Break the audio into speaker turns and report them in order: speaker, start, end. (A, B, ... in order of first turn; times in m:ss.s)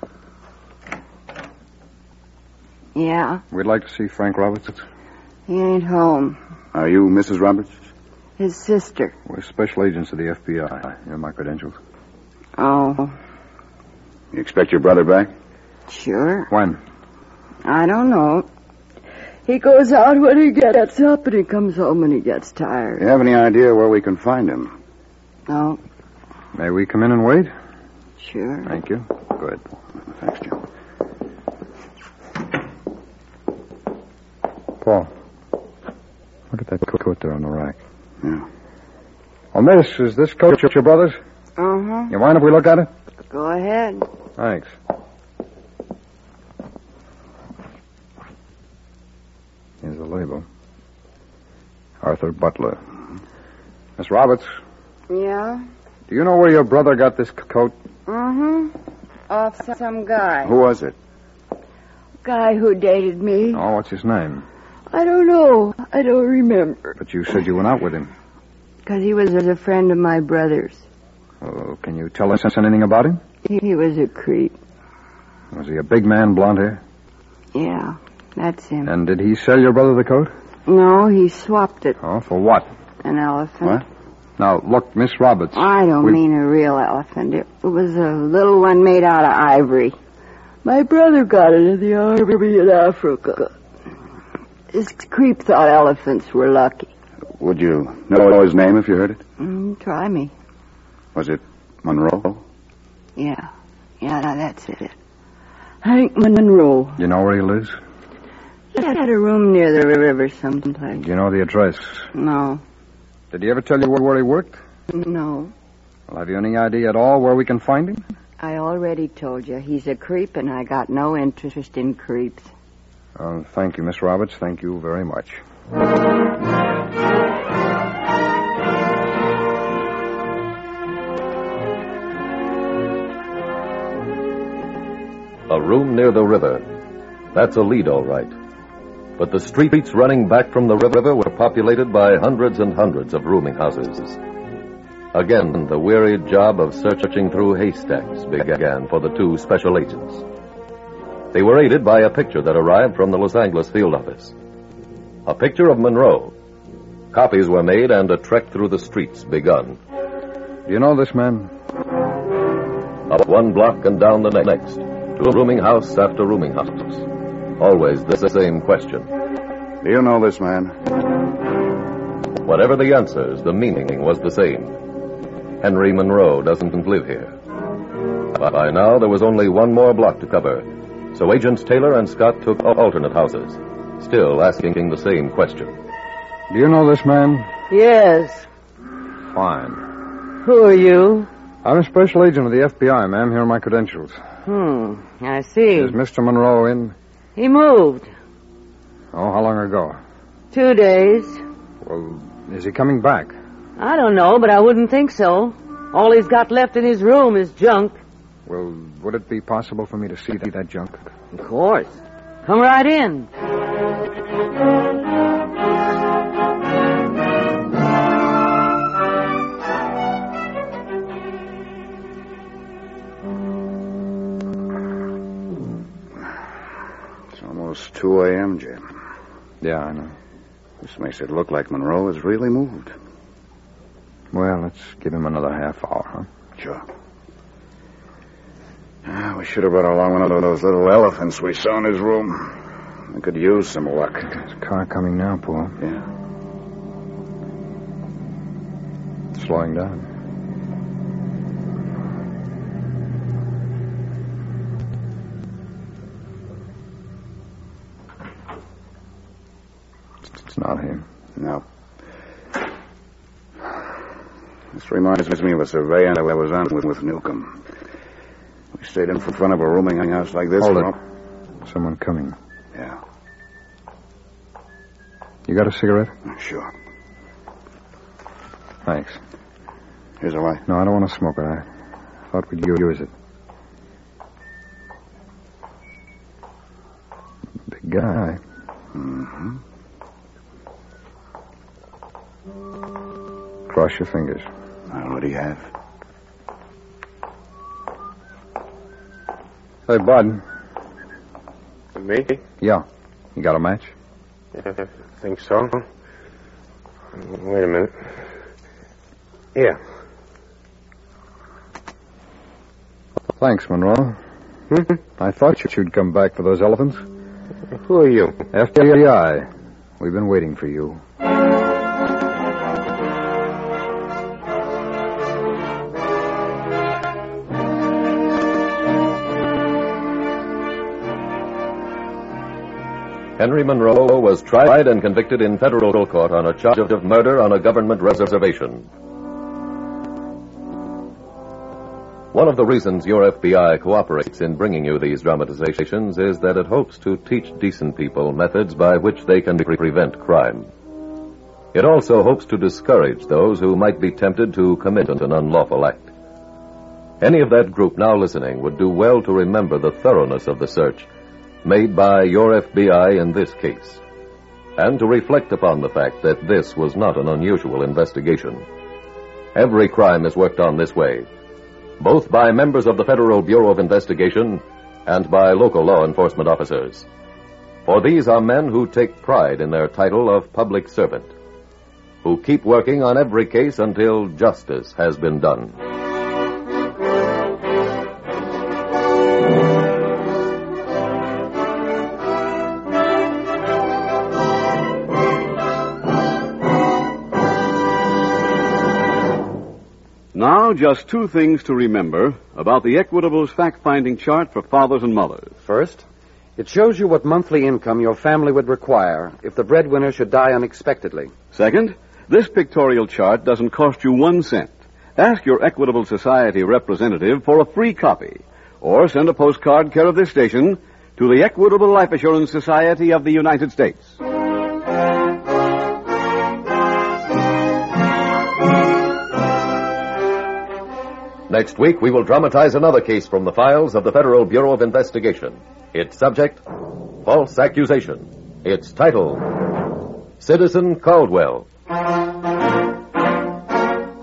0:02.9-0:03.4 A
0:03.5-0:04.8 B
0:05.5-0:06.4 A
0:06.7-0:07.8 C
0:08.4-0:09.1 A
0:09.2-0:11.8 B
0:12.6-0:13.1 A
0:14.3-0:15.3 C
0:15.9-0:16.5 A
0:16.5-0:16.8 B
0:17.6-0:18.5 A
0:19.4-0:23.0 A
0:23.0-0:24.7 C
0:25.5-0:25.8 A
0:26.5-0:27.5 B
0:28.2-0:28.7 A
0:28.6-0:29.6 B
0:30.1-0:30.6 C
0:34.8-0:35.1 B
0:36.5-0:37.8 B
0:39.5-0:41.2 B
0:41.6-0:42.1 A
0:42.1-0:42.9 B
0:43.3-0:44.0 A
0:44.4-0:44.7 B
0:49.8-0:50.4 B
0:52.0-0:52.8 B
0:54.0-0:54.5 B
0:55.1-0:55.6 A
0:56.1-0:57.7 B
0:58.1-0:58.7 A
0:59.3-1:00.5 A
1:00.4-1:00.9 C
1:02.2-1:03.6 A
1:03.5-1:04.4 B
1:04.9-1:07.0 A
1:07.0-1:08.1 B
1:08.8-1:10.8 A
1:11.4-1:13.2 B
1:13.4-1:14.6 A
1:15.5-1:16.8 B
1:17.5-1:18.9 A
1:18.8-1:20.3 B
1:20.7-1:22.0 A
1:22.0-1:22.7 B
1:23.0-1:23.8 A
1:24.4-1:26.2 B
1:25.5-1:30.0 A
1:30.6-1:33.5 A
1:34.7-1:36.9 A
1:37.4-1:39.2 C
1:39.4-1:40.3 A
1:41.1-1:42.4 C
1:43.2-1:43.5 A
1:44.0-1:44.9 A
1:45.8-1:47.0 A
1:47.0-1:47.8 B
1:48.7-1:51.0 A
1:50.9-1:52.1 B
1:52.1-1:52.6 A
1:53.3-1:54.6 B
1:54.9-1:55.5 A
1:56.1-1:58.0 B
1:58.4-2:02.5 A
2:03.2-2:05.4 B
2:15.5-2:16.7 D
2:17.3-2:18.3 D
2:19.2-2:24.2 D
2:25.1-2:30.2 D
2:31.3-2:34.3 D
2:35.2-2:36.3 D
2:37.1-2:39.8 D
2:40.7-2:41.5 B
2:43.1-2:47.0 D
2:47.6-2:49.1 D
2:49.8-2:50.7 C
2:52.4-2:54.8 D
2:55.6-2:57.3 D
2:58.4-3:05.8 D
3:06.5-3:07.5 B
3:07.7-3:08.4 E
3:09.3-3:09.8 B
3:10.4-3:11.3 E
3:11.6-3:14.2 B
3:14.4-3:16.0 E
3:15.7-3:16.9 B
3:17.4-3:18.1 E
3:19.1-3:20.0 B
3:20.5-3:21.4 E
3:21.8-3:23.4 B
3:23.8-3:28.0 E
3:28.5-3:31.0 B
3:31.3-3:33.3 E
3:47.3-3:48.8 C
3:49.6-3:50.2 B
3:50.8-3:52.9 C
3:54.3-3:56.3 B
3:56.6-3:56.8 C
3:59.0-4:02.6 C
4:03.1-4:04.4 C
4:04.4-4:05.7 B
4:09.3-4:10.0 B
4:20.3-4:21.0 B
4:21.4-4:21.6 C
4:24.7-4:27.6 C
4:28.7-4:31.0 C
4:30.6-4:30.9 B
4:31.6-4:32.4 B
4:35.5-4:36.1 B
4:36.3-4:36.7 C
4:38.8-4:39.2 B
4:40.2-4:40.6 C
4:40.6-4:41.6 B
4:42.3-4:43.1 B
4:47.7-4:48.4 B
4:48.9-4:49.6 C
4:53.7-4:54.5 B
4:54.9-4:55.7 C
4:59.9-5:00.4 B
5:01.9-5:02.4 F
5:02.6-5:03.9 B
5:04.6-5:05.8 F
5:07.2-5:08.0 F
5:13.4-5:14.2 B
5:14.7-5:15.0 F
5:15.2-5:17.0 B
5:17.8-5:18.4 F
5:18.5-5:19.5 B
5:20.0-5:21.0 B
5:33.4-5:38.9 D
5:42.3-5:50.7 D
5:51.7-5:56.1 D
5:57.2-6:01.1 D
6:01.6-6:04.0 D
6:04.8-6:08.6 D
6:09.5-6:11.3 D
6:12.0-6:17.0 D
6:17.8-6:21.3 D
6:22.2-6:25.8 D
6:40.3-6:45.5 G
6:45.6-6:46.0 H
6:46.6-6:51.3 H
6:51.5-7:04.2 G
7:11.5-7:16.6 D
7:17.2-7:19.5 D
7:20.4-7:21.7 D